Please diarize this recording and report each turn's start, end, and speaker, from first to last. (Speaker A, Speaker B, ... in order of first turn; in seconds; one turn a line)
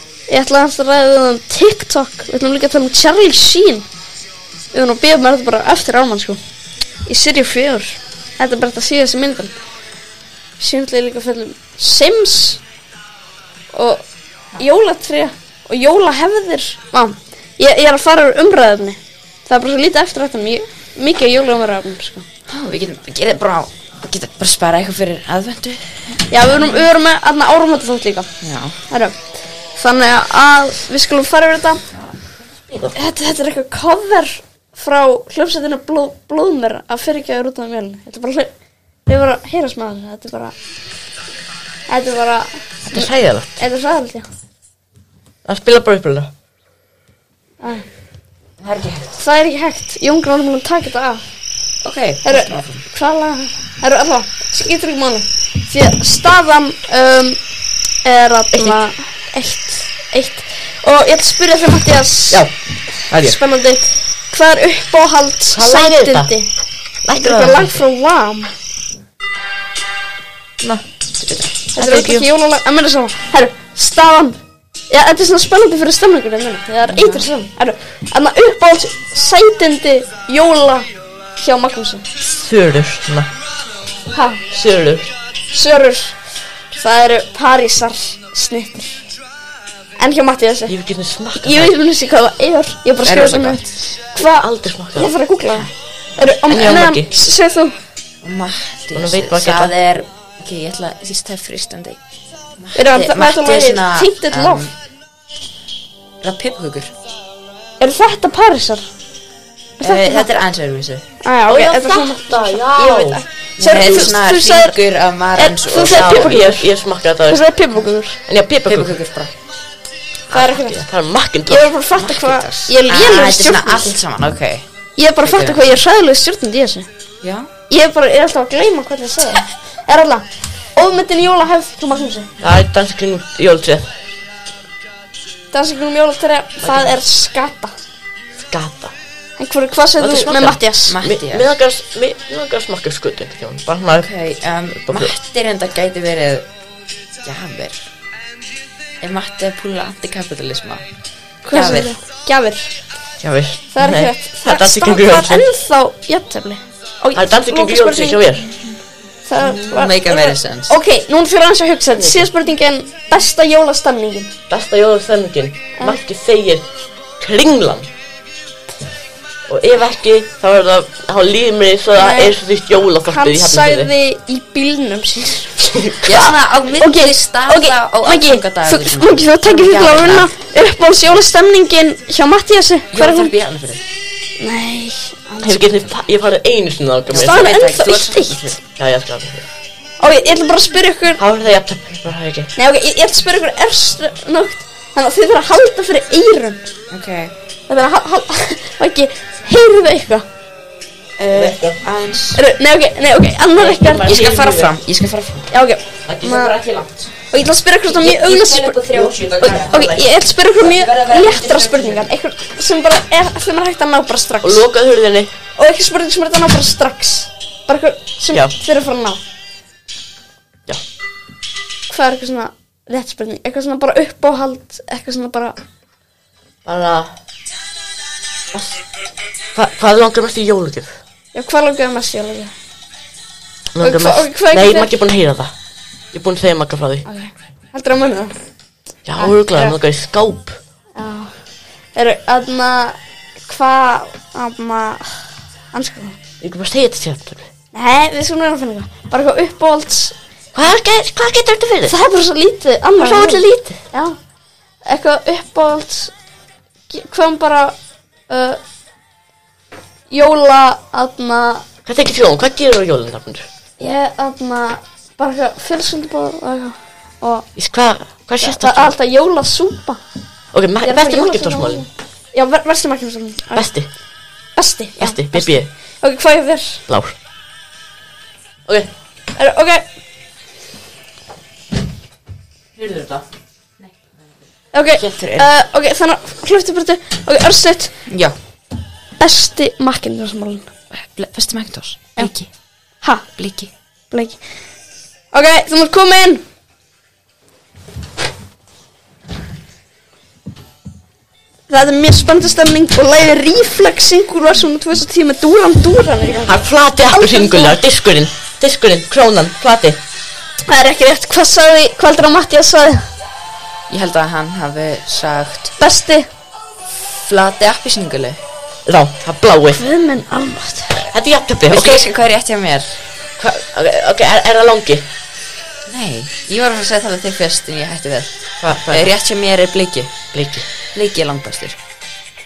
Speaker A: 0.3-3.9
Speaker A: 4.7-6.4
Speaker A: 7.1-9.6
Speaker A: 10.6-12.6
Speaker A: 13.7-14.0
Speaker A: 14.6-22.2
Speaker B: 22.5-26.9
Speaker A: 26.3-28.3
Speaker B: 28.4-28.8
Speaker A: 28.9-29.2
Speaker A: 29.8-31.8
Speaker B: 31.9-32.9
Speaker A: 32.9-38.5
Speaker A: 39.1-40.5
Speaker A: 41.9-44.3
Speaker C: 42.9-43.6
Speaker C: 45.5-46.3
Speaker B: 48.6-49.2
Speaker A: 49.2-51.2
Speaker B: 51.8-52.8
Speaker A: 52.2-57.4
Speaker A: 58.0-62.5
Speaker C: 58.5-58.8
Speaker C: 63.1-63.4
Speaker A: 63.1-66.5
Speaker C: 65.5-66.3
Speaker C: 67.0-67.8
Speaker A: 67.1-68.5
Speaker B: 71.2-71.5
Speaker C: 71.8-72.3
Speaker A: 71.8-74.4
Speaker A: 74.9-80.9
Speaker B: 76.9-77.3
Speaker A: 81.4-82.0
Speaker C: 82.2-83.3
Speaker A: 84.1-84.4
Speaker C: 84.5-85.1
Speaker A: 85.5-86.2
Speaker A: 86.8-89.0
Speaker A: 90.0-90.8
Speaker C: 90.7-91.7
Speaker A: 91.4-93.6
Speaker B: 93.0-93.9
Speaker A: 94.1-97.8
Speaker C: 94.3-95.1
Speaker C: 96.5-97.1
Speaker B: 98.2-102.0
Speaker C: 99.0-99.7
Speaker B: 102.6-104.7
Speaker A: 102.8-104.7
Speaker B: 106.2-106.9
Speaker A: 107.8-108.9
Speaker B: 109.8-111.0
Speaker A: 109.8-110.3
Speaker A: 111.2-114.8
Speaker C: 111.5-113.2
Speaker B: 113.6-116.5
Speaker C: 113.8-114.0
Speaker A: 115.4-116.7
Speaker C: 115.9-117.4
Speaker A: 117.3-118.2
Speaker C: 118.3-118.9
Speaker B: 118.7-119.3
Speaker C: 120.3-121.7
Speaker A: 120.3-120.8
Speaker A: 121.5-124.0
Speaker B: 122.0-124.7
Speaker A: 125.0-126.9
Speaker B: 125.2-125.6
Speaker B: 127.2-127.5
Speaker A: 127.7-132.3
Speaker C: 132.4-133.9
Speaker A: 135.5-137.7
Speaker C: 136.6-136.9
Speaker C: 138.4-138.9
Speaker A: 139.4-141.0
Speaker C: 140.0-144.1
Speaker B: 140.9-141.5
Speaker B: 143.9-146.5
Speaker C: 144.9-145.1
Speaker B: 147.2-147.9
Speaker B: 149.0-150.8
Speaker A: 151.4-152.7
Speaker B: 151.5-152.0
Speaker C: 153.2-155.5
Speaker A: 153.7-158.2
Speaker C: 157.1-158.5
Speaker A: 159.3-164.3
Speaker B: 159.5-160.8
Speaker C: 161.9-162.3
Speaker C: 164.5-166.7
Speaker C: 167.2-167.9
Speaker C: 169.5-173.9
Speaker A: 172.0-172.4
Speaker A: 173.1-175.6
Speaker C: 175.6-176.3
Speaker B: 176.0-180.3
Speaker A: 176.8-183.3
Speaker B: 182.9-183.9
Speaker A: 184.4-185.6
Speaker C: 185.4-187.5
Speaker B: 187.1-188.6
Speaker A: 187.2-188.5
Speaker C: 188.8-189.5
Speaker A: 190.0-191.2
Speaker C: 191.2-192.5
Speaker A: 192.6-196.7
Speaker B: 196.9-197.3
Speaker A: 197.7-200.3
Speaker B: 201.2-202.4
Speaker C: 201.3-201.8
Speaker A: 202.3-204.3
Speaker C: 203.6-204.7
Speaker B: 204.0-205.5
Speaker A: 205.5-206.6
Speaker C: 206.1-206.7
Speaker B: 206.6-207.1
Speaker A: 207.3-214.6
Speaker B: 207.9-210.0
Speaker C: 209.7-210.0
Speaker B: 210.6-212.1
Speaker C: 214.4-215.3
Speaker A: 215.6-219.2
Speaker A: 221.9-225.6
Speaker C: 226.7-227.1
Speaker C: 228.5-228.8
Speaker C: 229.6-231.0
Speaker A: 231.3-232.5
Speaker C: 233.8-235.5
Speaker A: 233.8-234.9
Speaker C: 236.1-237.1
Speaker A: 237.1-238.3
Speaker C: 239.1-240.6
Speaker A: 239.2-239.8
Speaker A: 241.0-241.3
Speaker A: 241.9-246.2
Speaker C: 246.4-247.5
Speaker A: 247.7-250.2
Speaker C: 250.6-251.9
Speaker A: 251.9-254.2
Speaker C: 253.0-253.8
Speaker A: 254.9-256.1
Speaker A: 256.9-257.8
Speaker A: 258.3-258.6
Speaker A: 260.1-261.7
Speaker C: 261.9-263.5
Speaker A: 263.8-267.5
Speaker C: 267.6-268.9
Speaker A: 268.4-270.0
Speaker C: 270.5-271.9
Speaker A: 270.8-273.7
Speaker C: 273.6-273.9
Speaker A: 274.6-276.8
Speaker C: 275.0-275.7
Speaker C: 276.9-277.2
Speaker A: 279.4-279.8
Speaker C: 282.8-283.2
Speaker A: 284.7-288.1
Speaker B: 285.0-285.5
Speaker B: 288.1-288.4
Speaker A: 289.2-290.7
Speaker B: 290.9-292.5
Speaker B: 293.4-293.7
Speaker A: 294.1-294.4
Speaker A: 295.3-296.4
Speaker A: 301.7-307.8
Speaker C: 306.4-310.0
Speaker A: 310.7-313.1
Speaker B: 313.9-315.7
Speaker A: 315.8-316.3
Speaker B: 317.1-318.4
Speaker C: 318.9-319.8
Speaker A: 319.8-321.1
Speaker C: 321.1-322.1
Speaker B: 321.7-323.0
Speaker C: 323.4-325.1
Speaker B: 325.9-330.1
Speaker C: 328.6-329.1
Speaker C: 330.3-330.7
Speaker B: 330.9-331.8